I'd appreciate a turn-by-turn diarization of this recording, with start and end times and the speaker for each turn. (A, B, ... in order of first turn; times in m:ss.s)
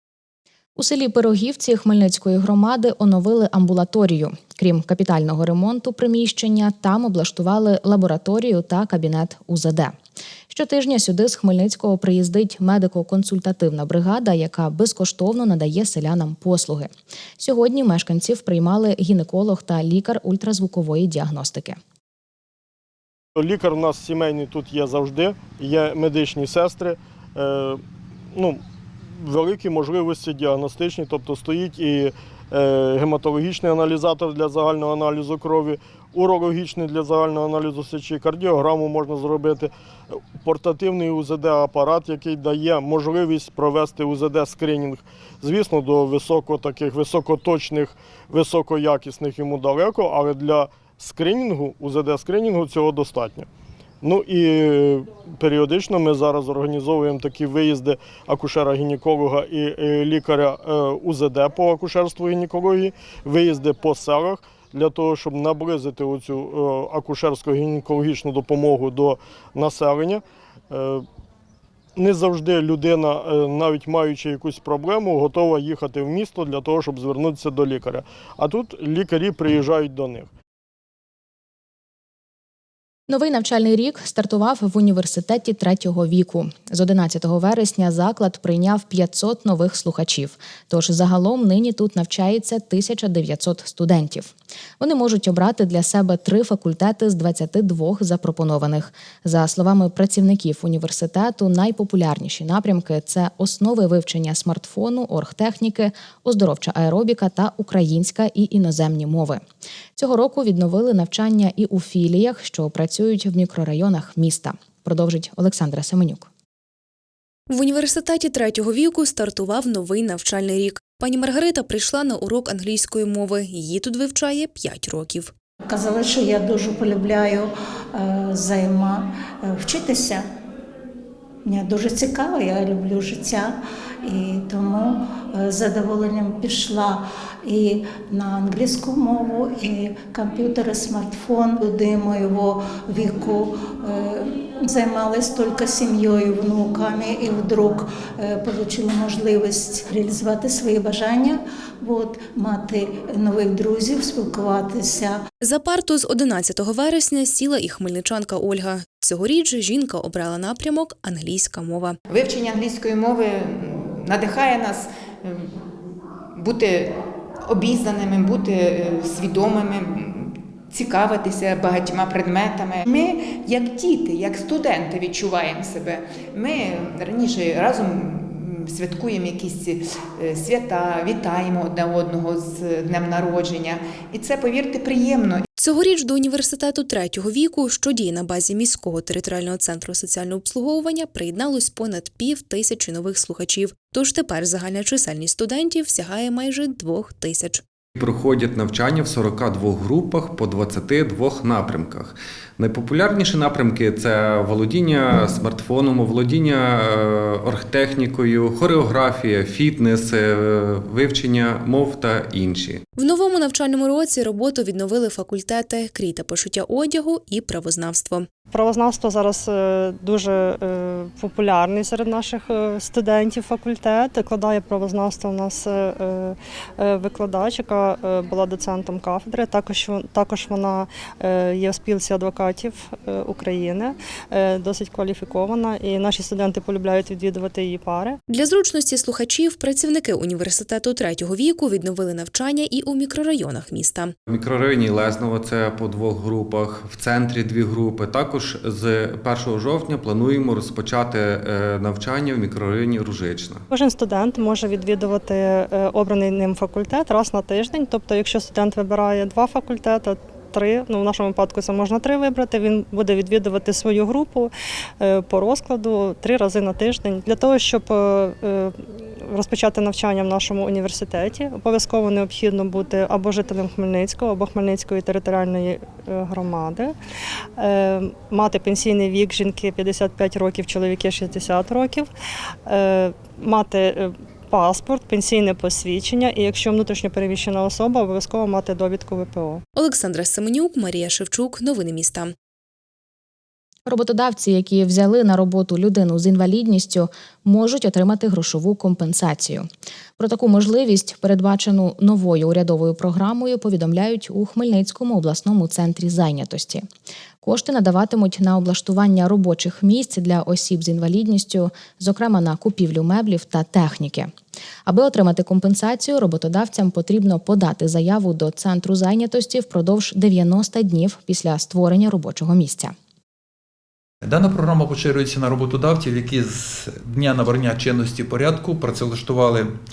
0:00.8-0:09.9 A
0:10.5-0:21.8 A
0:23.4-0:27.8 B
0:28.3-0:28.6 B
0:29.2-0:53.5 B
0:54.0-1:11.0 B
1:12.0-1:20.3 B
1:23.1-1:49.4 A
1:50.0-1:56.3 A
1:57.5-2:05.3 C
2:05.7-2:10.2 D
2:11.4-2:35.2 D
2:35.4-2:42.0 C
2:42.1-2:45.6 E
2:46.3-3:05.5 E
3:05.6-3:17.6 C
3:18.0-3:32.8 F
3:33.0-3:38.3 C
3:38.5-3:58.2 G
3:58.3-4:04.1 C
4:04.3-4:13.6 F
4:13.7-4:36.9 G
4:37.6-4:42.1 G
4:42.7-4:49.6 G
4:49.8-4:52.3 C
4:53.9-4:59.7 A
5:00.2-5:06.9 A
5:07.4-5:14.3 A
5:14.8-5:22.9 A
5:24.2-5:29.7 H